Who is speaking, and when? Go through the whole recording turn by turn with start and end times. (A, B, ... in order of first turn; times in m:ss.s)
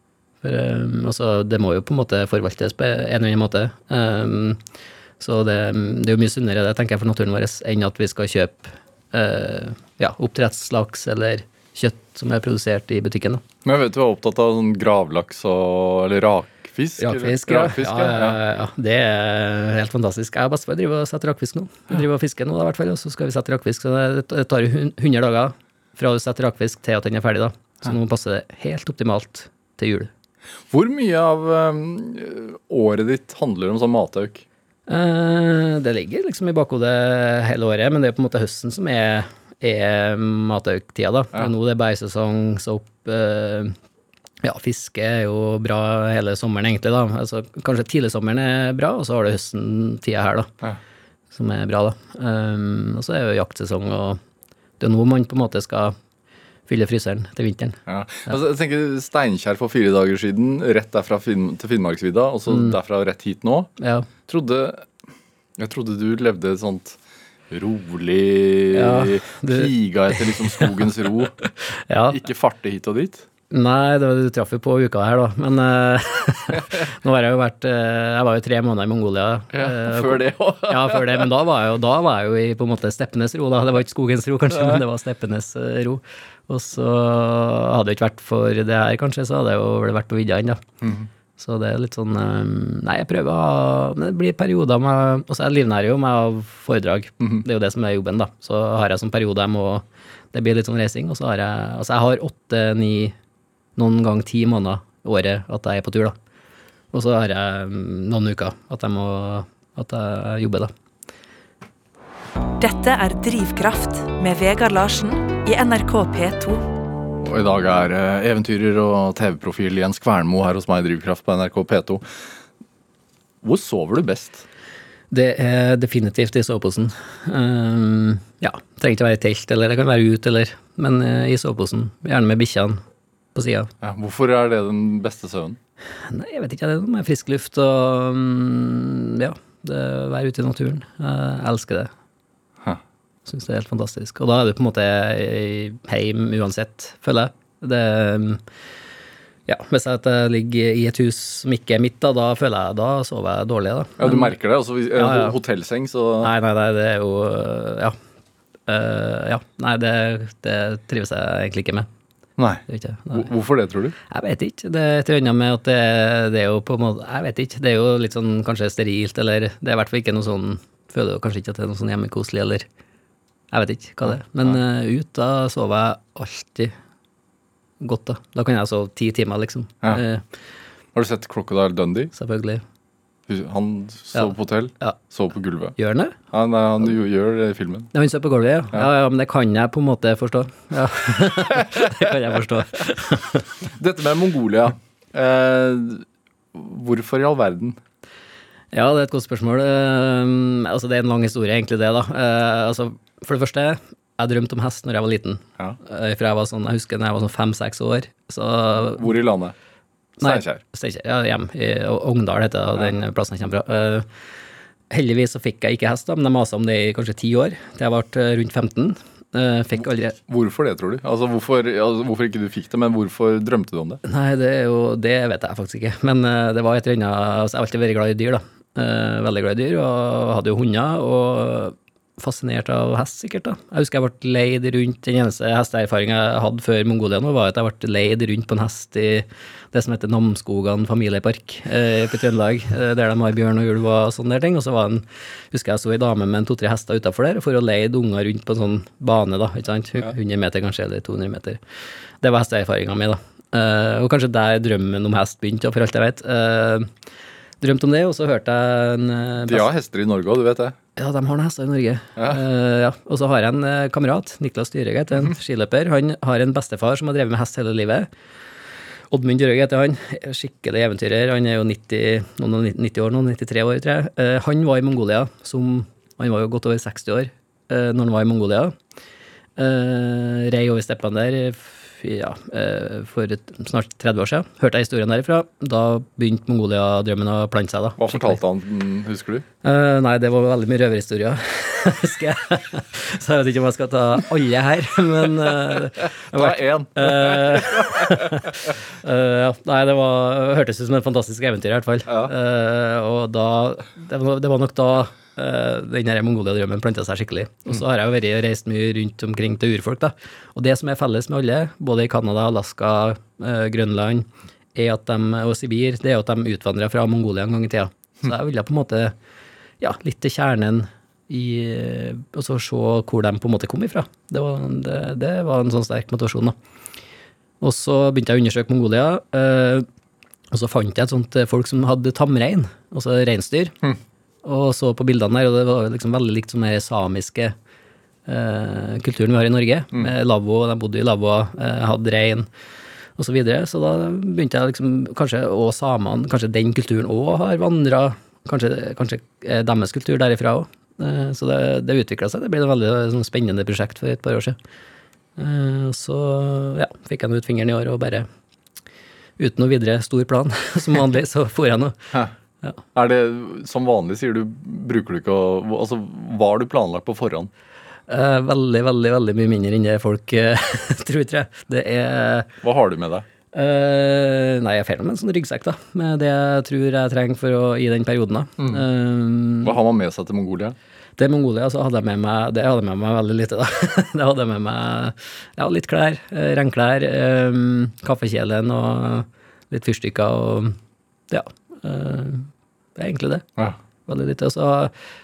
0:00.4-0:04.6 A
0:05.2-0:13.4 A
0:13.6-0:18.4 B
0:17.0-0:30.1 A
0:30.7-0:34.4 B
0:34.9-0:43.7 A
0:44.4-0:50.5 A
0:51.3-0:54.2 A
0:54.8-0:55.9 A
0:56.7-0:57.8 A
0:57.9-1:03.7 B
1:02.5-1:02.8 A
1:03.8-1:04.1 A
1:04.2-1:04.9 B
1:05.6-1:07.0 B
1:07.5-1:11.4 B
1:08.7-1:10.8 A
1:11.9-1:12.2 A
1:12.1-1:13.2 B
1:13.5-1:30.6 A
1:19.5-1:21.3 B
1:24.5-1:24.8 B
1:30.8-1:31.1 B
1:31.4-1:43.1 A
1:43.8-1:46.1 A
1:46.9-1:50.7 A
1:52.6-1:56.6 C
1:57.2-2:02.0 B
2:03.4-2:04.4 B
2:05.1-2:12.8 A
2:13.3-2:13.7 A
2:13.8-2:15.6 B
2:16.1-2:21.9 A
2:23.2-2:28.4 A
2:29.5-2:34.3 A
2:34.0-2:36.3 B
2:35.0-2:35.4 A
2:36.2-2:37.9 A
2:38.7-2:41.9 A
2:42.4-2:43.9 B
2:42.7-2:43.3 A
2:44.1-2:52.6 A
2:53.5-2:56.7 A
2:54.0-2:54.6 B
2:57.8-3:00.2 A
3:00.9-3:02.1 B
3:02.2-3:02.6 A
3:03.3-3:05.7 B
3:04.1-3:05.0 A
3:05.8-3:06.1 A
3:06.3-3:07.9 B
3:07.9-3:13.5 A
3:13.6-3:17.8 B
3:18.7-3:29.1 A
3:28.8-3:29.5 B
3:30.2-3:30.6 B
3:30.2-3:34.1 A
3:34.9-3:40.2 A
3:40.3-3:44.0 B
3:44.0-4:11.6 A
4:12.2-4:16.9 A
4:17.6-4:19.7 A
4:19.4-4:20.8 B
4:21.0-4:28.1 A
4:29.1-4:38.7 A
4:39.6-4:48.4 A
4:48.0-4:49.4 B
4:49.6-5:19.1 A
4:55.7-4:58.5 B
5:02.1-5:02.3 B
5:19.8-5:26.6 A
5:27.6-5:29.8 A
5:30.5-5:33.7 A
5:34.4-5:37.5 A
5:38.3-5:42.5 A
5:43.2-5:54.6 A
5:55.4-5:58.3 A
5:59.4-6:02.1 A
6:02.9-6:07.5 B
6:08.1-6:12.5 A
6:12.6-6:13.2 B
6:13.5-6:19.8 A
6:18.6-6:18.8 B
6:19.6-6:20.8 B
6:21.2-6:30.8 A
6:31.3-6:33.4 A
6:34.1-6:34.9 A